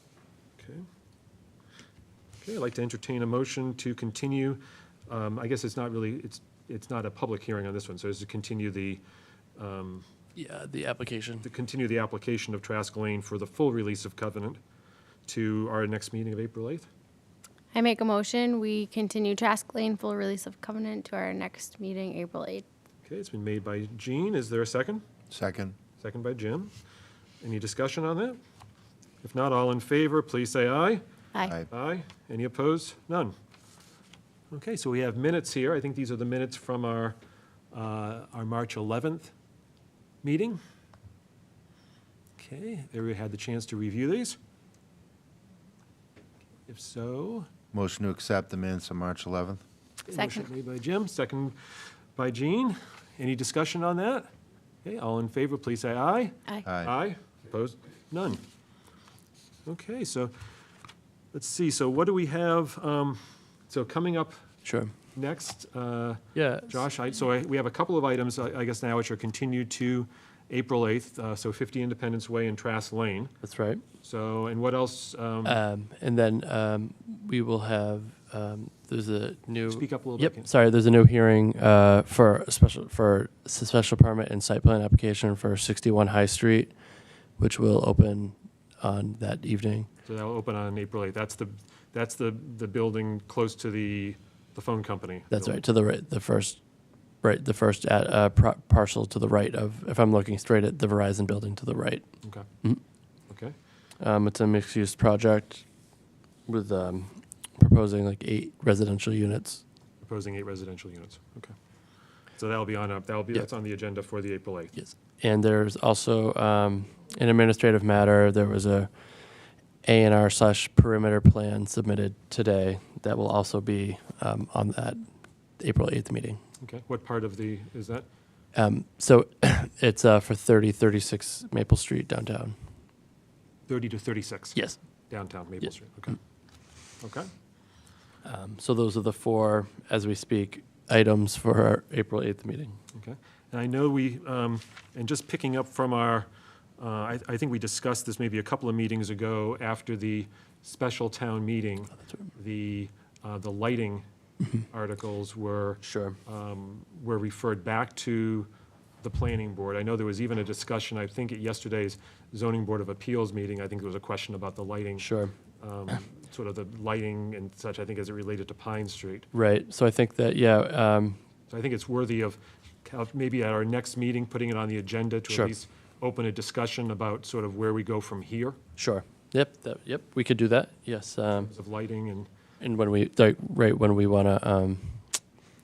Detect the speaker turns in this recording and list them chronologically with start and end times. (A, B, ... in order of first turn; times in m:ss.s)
0:00.6-0:00.8 A
0:02.4-0:09.0 A
0:09.6-0:10.0 A
0:10.4-0:11.4 B
0:11.4-0:14.6 A
0:15.2-0:16.9 A
0:17.7-0:22.6 C
0:23.0-0:25.0 A
0:25.3-0:25.7 D
0:26.0-0:26.7 A
0:27.4-0:28.4 A
0:29.2-0:31.0 A
0:31.7-0:33.3 A
0:34.5-0:37.2 A
0:37.7-0:39.3 A
0:40.2-0:40.6 A
0:42.4-0:44.4 A
0:46.7-0:47.5 A
0:47.7-0:49.6 D
0:50.1-0:51.5 A
0:50.2-0:50.4 C
0:52.2-0:54.3 A
0:54.8-0:58.4 A
0:56.6-0:56.9 D
0:59.6-1:00.3 A
1:01.3-1:04.4 A
1:04.6-1:04.9 B
1:05.1-1:13.3 A
1:06.3-1:06.8 B
1:13.4-1:13.8 B
1:14.0-1:15.6 A
1:15.4-1:26.7 B
1:19.7-1:20.5 A
1:27.4-1:29.9 B
1:30.0-1:35.6 A
1:35.3-1:36.6 B
1:37.2-1:42.0 B
1:43.3-1:43.5 A
1:44.0-1:45.6 B
1:46.5-1:49.6 B
1:50.0-1:51.5 A
1:52.4-1:54.7 A
1:54.7-1:58.9 B
1:59.8-2:05.0 B
2:05.6-2:06.4 B
2:06.6-2:08.0 A
2:08.5-2:12.6 B
2:13.7-2:16.2 A
2:17.0-2:17.3 A
2:18.2-2:22.8 B
2:22.9-2:34.0 A
2:34.7-2:38.5 A
2:35.8-2:36.2 B
2:39.0-2:45.1 A
2:45.0-2:45.3 B
2:45.6-2:49.2 A
2:49.3-2:51.2 B
2:51.5-2:58.6 A
2:55.3-2:55.5 B
2:58.8-3:01.5 B
3:01.3-3:02.3 A
3:02.6-3:05.2 B